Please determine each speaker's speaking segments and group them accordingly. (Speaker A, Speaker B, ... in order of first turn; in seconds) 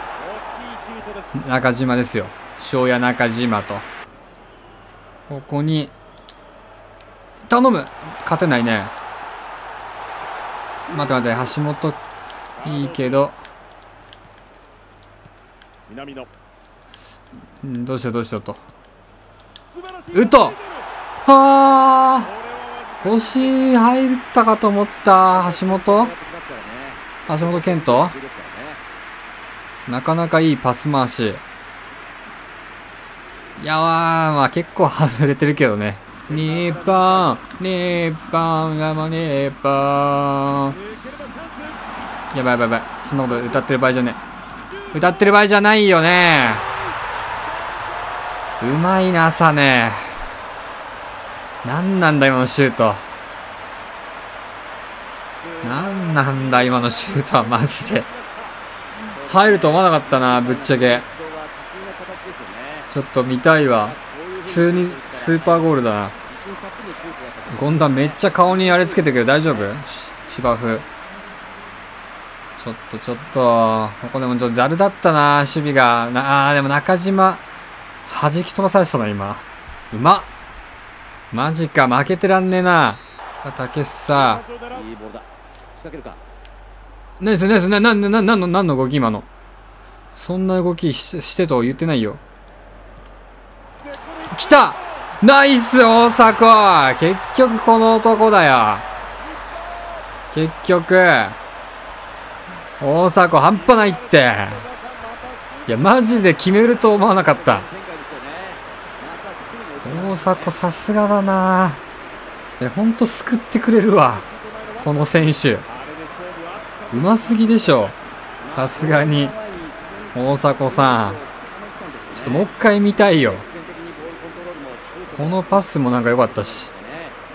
Speaker A: 0.3-1.2, 15.9-16.2, 20.0-20.5, 36.6-37.1, 41.2-41.6, 55.8-58.5, 115.8-117.4
Speaker B: 1.3-3.9, 5.3-5.9, 7.5-8.9, 10.9-12.0, 12.6-13.4, 17.6-18.6, 20.1-20.6, 21.2-22.3, 23.0-26.1, 27.3-28.1, 29.9-31.4, 33.6-40.8, 42.3-44.2, 44.9-46.7, 48.6-50.0, 51.6-53.0, 55.6-58.1, 59.2-61.0, 62.9-66.1, 67.5-70.8, 72.6-77.4, 78.0-80.3, 81.3-84.4, 87.2-89.3, 90.1-92.2, 94.3-98.8, 100.3-101.4, 102.8-104.7, 105.7-107.7, 109.8-111.8, 112.6-114.2, 114.8-115.7, 116.9-118.0, 118.5-119.3, 120.1-121.2, 122.1-123.4, 125.2-126.7
Speaker C: 25.3-28.8, 59.1-62.9, 63.9-65.7, 66.2-69.6, 84.7-86.2, 106.9-110.5, 118.4-122.5, 123.1-125.7, 126.2-127.2